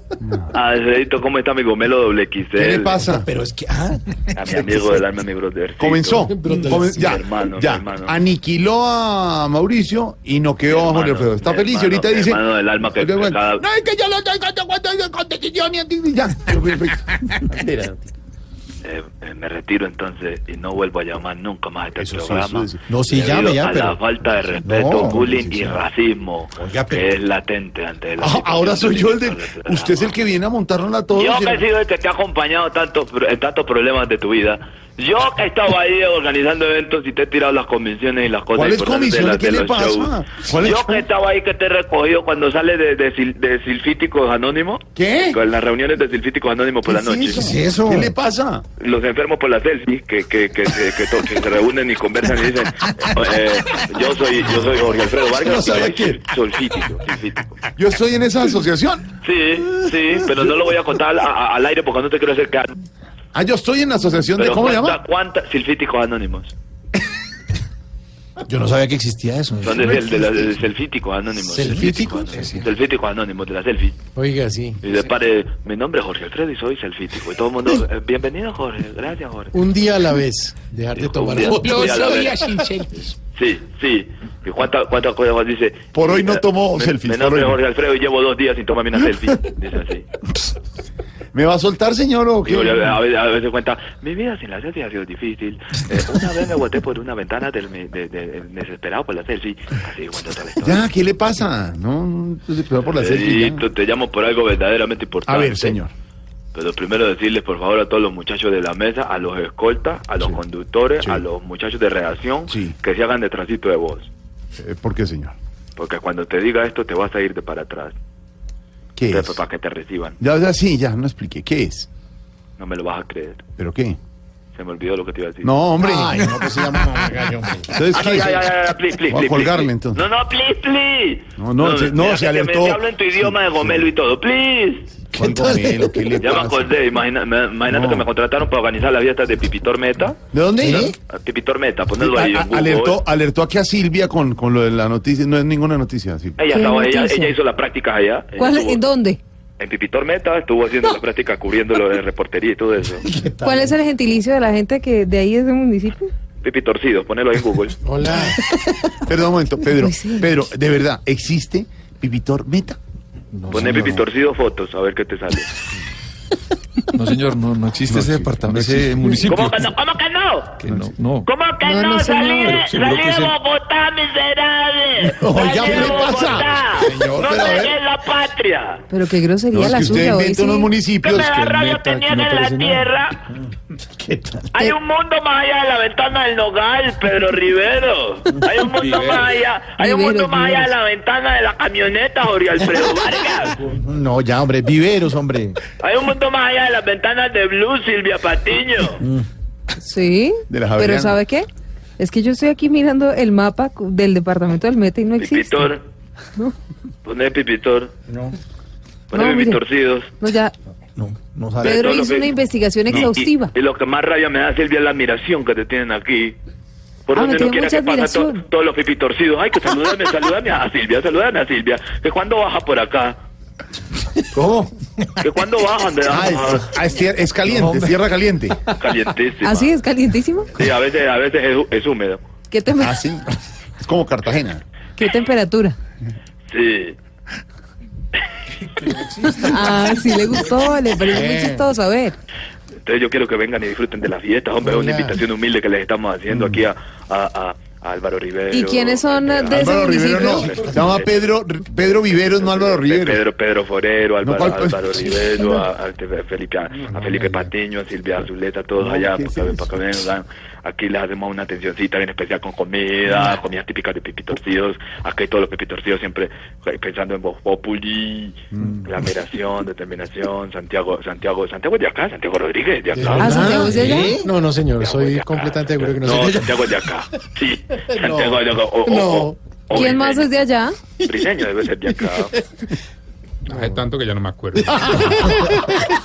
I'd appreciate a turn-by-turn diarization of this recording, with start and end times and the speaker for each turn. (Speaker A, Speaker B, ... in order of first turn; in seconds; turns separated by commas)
Speaker A: 0.2-0.5, Speaker B: 0.5-3.0, Speaker A: 2.5-3.3, Speaker C: 3.0-4.3, Speaker B: 4.3-8.2, Speaker A: 4.5-4.9, Speaker A: 5.8-17.9, Speaker D: 6.3-6.9, Speaker B: 10.7-13.6, Speaker B: 18.8-30.1, Speaker A: 21.9-22.9, Speaker C: 22.8-24.0, Speaker C: 24.6-25.8, Speaker C: 26.6-27.1, Speaker A: 28.2-31.7, Speaker B: 31.1-47.5, Speaker A: 38.5-41.1, Speaker A: 44.9-45.4, Speaker A: 46.9-48.6, Speaker C: 47.3-48.1, Speaker B: 48.8-57.6, Speaker A: 55.4-56.2, Speaker A: 57.8-59.1, Speaker B: 59.2-62.8, Speaker A: 63.3-65.0, Speaker B: 64.4-66.5, Speaker C: 68.5-70.5, Speaker B: 69.6-74.0, Speaker C: 71.5-72.6, Speaker D: 71.6-72.1, Speaker D: 74.1-74.8, Speaker B: 74.8-79.6, Speaker D: 79.5-82.8, Speaker B: 80.9-90.1, Speaker A: 85.9-87.6, Speaker A: 91.3-93.0, Speaker B: 92.5-100.8, Speaker A: 100.6-103.6, Speaker B: 103.0-105.8, Speaker A: 105.3-105.9, Speaker B: 106.5-114.1, Speaker A: 111.0-111.2, Speaker A: 112.5-112.7, Speaker A: 114.6-115.4, Speaker B: 115.8-118.0, Speaker A: 119.0-119.4, Speaker B: 119.1-120.2, Speaker A: 120.2-121.9, Speaker B: 122.6-123.4, Speaker A: 123.6-124.0, Speaker B: 124.5-125.5, Speaker A: 125.4-126.3, Speaker C: 125.8-127.8, Speaker A: 127.7-128.5, Speaker B: 127.9-134.9, Speaker A: 129.1-130.0, Speaker A: 131.4-133.8, Speaker A: 135.1-136.7, Speaker C: 135.2-135.9, Speaker B: 136.2-140.2, Speaker A: 137.7-138.1, Speaker A: 140.3-140.9, Speaker C: 140.6-140.9, Speaker B: 141.1-143.0, Speaker A: 142.0-146.4, Speaker B: 146.4-148.8, Speaker E: 146.5-147.3, Speaker E: 148.4-149.2, Speaker B: 149.6-153.1, Speaker C: 153.1-153.7, Speaker E: 153.4-156.1, Speaker B: 156.4-157.8, Speaker D: 157.8-158.4, Speaker E: 158.1-158.4, Speaker A: 159.1-162.8, Speaker E: 159.8-160.2, Speaker F: 163.3-163.9, Speaker B: 163.5-165.5, Speaker F: 166.9-169.7, Speaker A: 167.9-169.1, Speaker B: 169.2-170.6, Speaker F: 170.6-171.3, Speaker A: 170.6-170.9, Speaker B: 171.2-178.8, Speaker E: 171.6-172.6, Speaker F: 172.4-173.4, Speaker A: 175.2-177.8, Speaker G: 176.8-177.2, Speaker E: 178.9-180.7, Speaker A: 179.5-181.4, Speaker B: 181.0-183.2, Speaker G: 181.6-182.8, Speaker C: 183.8-184.5, Speaker B: 184.5-193.6, Speaker G: 188.8-189.3, Speaker E: 189.8-190.7, Speaker C: 193.6-195.6, Speaker B: 195.8-199.1, Speaker E: 199.8-201.5, Speaker A: 200.5-201.2, Speaker E: 202.0-205.7, Speaker B: 205.2-205.8, Speaker B: 207.1-207.9, Speaker C: 208.1-208.3, Speaker B: 209.1-210.1, Speaker E: 209.1-209.6, Speaker E: 210.2-210.5, Speaker C: 210.9-211.8, Speaker B: 211.6-212.3, Speaker E: 211.6-213.5, Speaker B: 212.9-216.4, Speaker A: 212.9-213.1, Speaker B: 217.1-223.2, Speaker E: 217.1-218.4, Speaker C: 224.3-225.1, Speaker B: 225.2-226.7, Speaker A: 226.1-228.6, Speaker F: 227.5-227.8, Speaker B: 228.8-229.7, Speaker E: 229.4-230.5, Speaker B: 230.5-232.2, Speaker E: 232.5-233.0, Speaker A: 232.8-233.3, Speaker A: 233.8-234.6, Speaker E: 235.0-235.8, Speaker B: 236.5-237.0, Speaker E: 239.2-242.2, Speaker B: 242.8-274.1, Speaker D: 244.6-245.2, Speaker A: 246.3-246.7, Speaker E: 248.5-250.5, Speaker A: 249.5-253.2, Speaker A: 254.2-255.4, Speaker A: 256.9-257.3, Speaker A: 258.8-259.6, Speaker A: 268.5-268.9, Speaker D: 272.9-276.7, Speaker E: 273.2-274.2, Speaker C: 273.3-274.3, Speaker B: 274.7-280.3, Speaker D: 278.9-279.4, Speaker E: 279.7-280.8, Speaker B: 281.1-282.4, Speaker G: 283.5-285.2, Speaker C: 284.9-285.7